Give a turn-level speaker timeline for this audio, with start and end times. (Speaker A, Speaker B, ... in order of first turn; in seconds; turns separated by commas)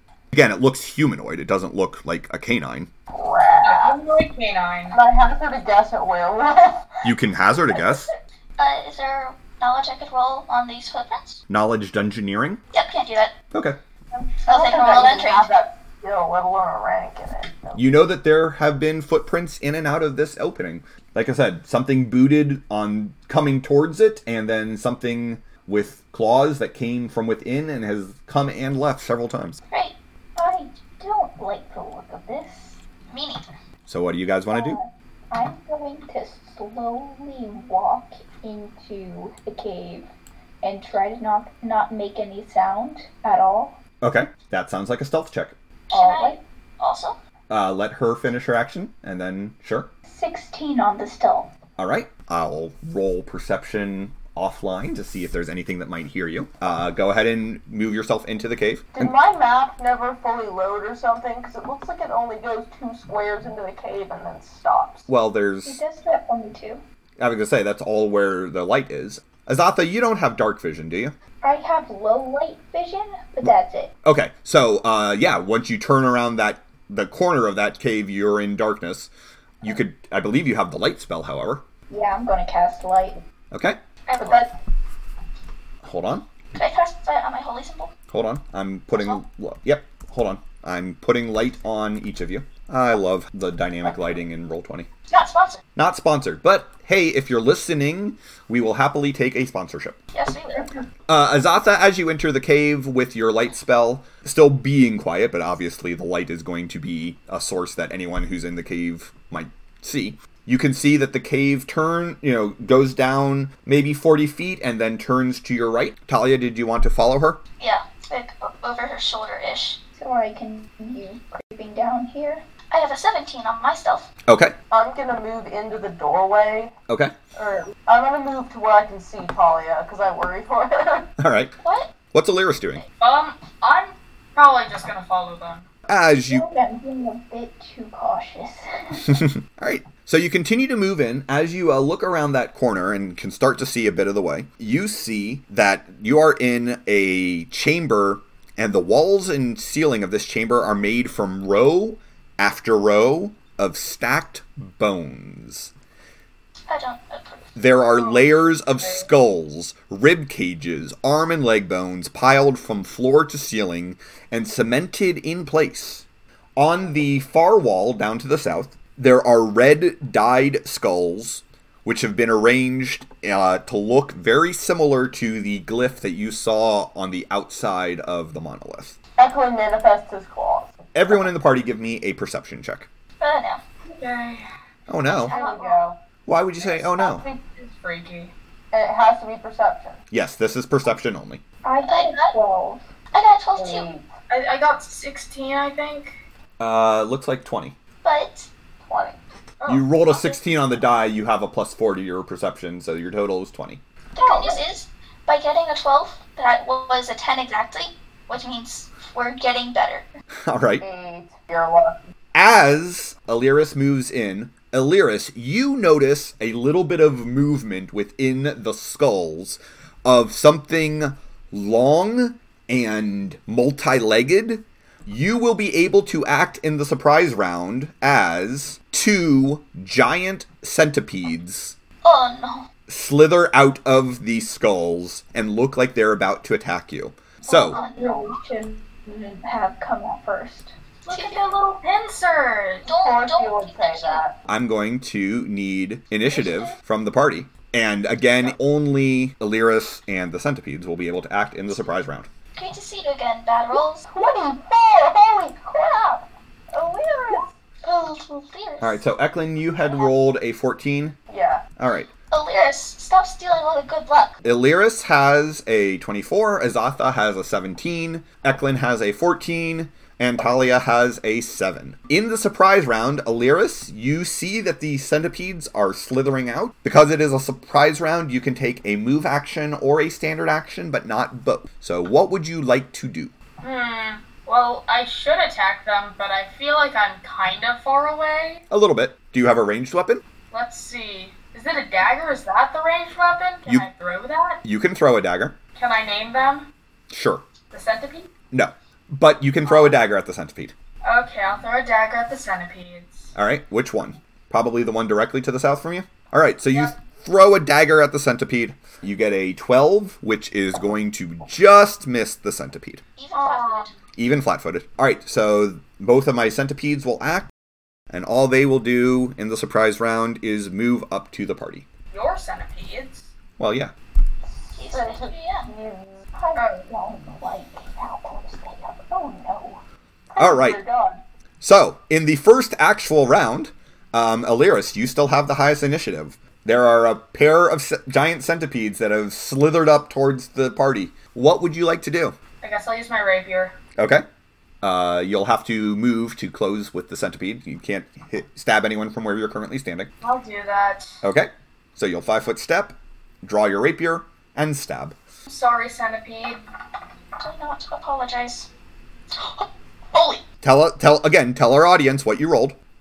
Speaker A: 0.3-2.9, Speaker B: 3.1-4.0, Speaker C: 3.6-5.0, Speaker B: 4.9-7.0, Speaker A: 7.0-8.1, Speaker B: 7.7-8.0, Speaker D: 8.6-11.4, Speaker A: 11.5-12.6, Speaker D: 12.7-13.3, Speaker A: 13.5-13.8, Speaker B: 14.4-17.8, Speaker D: 14.5-15.5, Speaker A: 17.7-29.6, Speaker D: 29.7-29.9, Speaker E: 30.4-32.8, Speaker D: 33.1-33.5, Speaker A: 33.9-34.8, Speaker E: 34.5-40.1, Speaker E: 40.6-43.8, Speaker A: 44.0-45.5, Speaker D: 45.9-47.2, Speaker E: 45.9-46.4, Speaker A: 47.5-49.9, Speaker E: 50.0-51.5, Speaker A: 51.8-59.1, Speaker B: 58.9-65.1, Speaker A: 65.1-65.8, Speaker E: 65.6-66.8, Speaker A: 67.2-71.1, Speaker E: 71.4-73.9, Speaker A: 74.0-79.1, Speaker A: 79.6-81.6, Speaker E: 81.9-83.2, Speaker A: 83.5-83.8, Speaker D: 84.1-84.3, Speaker B: 84.2-84.5, Speaker A: 85.8-86.3, Speaker D: 86.5-87.9, Speaker A: 88.1-94.9, Speaker D: 88.9-89.2, Speaker D: 95.1-95.6, Speaker A: 95.8-100.0, Speaker D: 100.1-100.8, Speaker A: 101.1-117.4, Speaker D: 117.6-119.8, Speaker E: 120.0-122.4, Speaker D: 122.7-124.1, Speaker A: 124.3-124.5, Speaker B: 124.7-126.7, Speaker A: 126.9-127.1, Speaker B: 127.3-131.1, Speaker A: 131.2-131.5, Speaker D: 131.6-131.9, Speaker A: 132.1-132.8, Speaker C: 133.0-135.7, Speaker A: 135.9-136.4, Speaker E: 136.2-139.2, Speaker A: 139.1-155.7, Speaker D: 156.7-157.6, Speaker A: 157.6-166.0, Speaker C: 157.9-159.1, Speaker A: 166.6-178.9, Speaker B: 179.2-181.2, Speaker A: 180.9-182.9, Speaker D: 183.2-183.6, Speaker C: 183.8-184.5, Speaker A: 184.9-185.3, Speaker D: 185.1-185.8, Speaker B: 185.3-186.0, Speaker A: 186.3-187.2, Speaker B: 186.6-187.3, Speaker C: 187.2-188.3, Speaker B: 188.7-190.0, Speaker A: 190.1-191.4, Speaker E: 191.6-192.9, Speaker D: 191.9-192.3, Speaker D: 193.1-193.9, Speaker B: 193.6-194.1, Speaker C: 194.3-196.2, Speaker A: 196.6-197.7, Speaker D: 198.0-198.5, Speaker B: 198.9-199.2, Speaker C: 199.6-200.4, Speaker A: 199.7-203.8, Speaker D: 204.1-210.1, Speaker B: 204.2-204.6, Speaker A: 210.4-210.8, Speaker B: 210.8-212.0, Speaker A: 212.3-231.8, Speaker D: 232.0-232.7, Speaker A: 232.9-237.8, Speaker D: 237.6-238.3, Speaker E: 237.7-240.8, Speaker C: 241.1-242.8, Speaker D: 241.1-241.4, Speaker D: 242.9-244.2, Speaker B: 242.9-244.3, Speaker A: 244.5-252.3, Speaker D: 246.3-246.8, Speaker D: 252.5-254.1, Speaker B: 253.7-257.4, Speaker D: 257.8-259.0, Speaker A: 258.8-261.2, Speaker B: 261.3-261.6, Speaker A: 261.8-262.1, Speaker D: 262.3-264.4, Speaker A: 264.4-283.3, Speaker C: 283.6-288.6, Speaker A: 288.7-290.2, Speaker C: 290.5-294.6, Speaker A: 294.6-295.6, Speaker C: 295.8-296.7, Speaker A: 297.1-297.4, Speaker C: 297.7-298.3, Speaker A: 298.5-300.7, Speaker C: 301.0-303.3, Speaker A: 303.3-313.0, Speaker D: 313.2-313.9, Speaker C: 313.3-313.9, Speaker A: 314.2-317.5, Speaker A: 318.1-321.9, Speaker C: 322.1-323.3, Speaker A: 323.6-323.9, Speaker B: 324.6-326.2, Speaker D: 324.7-325.7, Speaker E: 326.3-329.8, Speaker C: 326.5-326.8, Speaker B: 330.3-331.2, Speaker A: 330.4-330.8, Speaker A: 331.6-342.4, Speaker C: 342.6-343.8, Speaker A: 344.0-344.2, Speaker A: 344.8-350.1, Speaker C: 350.2-351.2, Speaker A: 351.2-355.1, Speaker C: 355.5-356.6, Speaker D: 357.4-358.7, Speaker D: 359.3-360.4, Speaker A: 360.6-362.8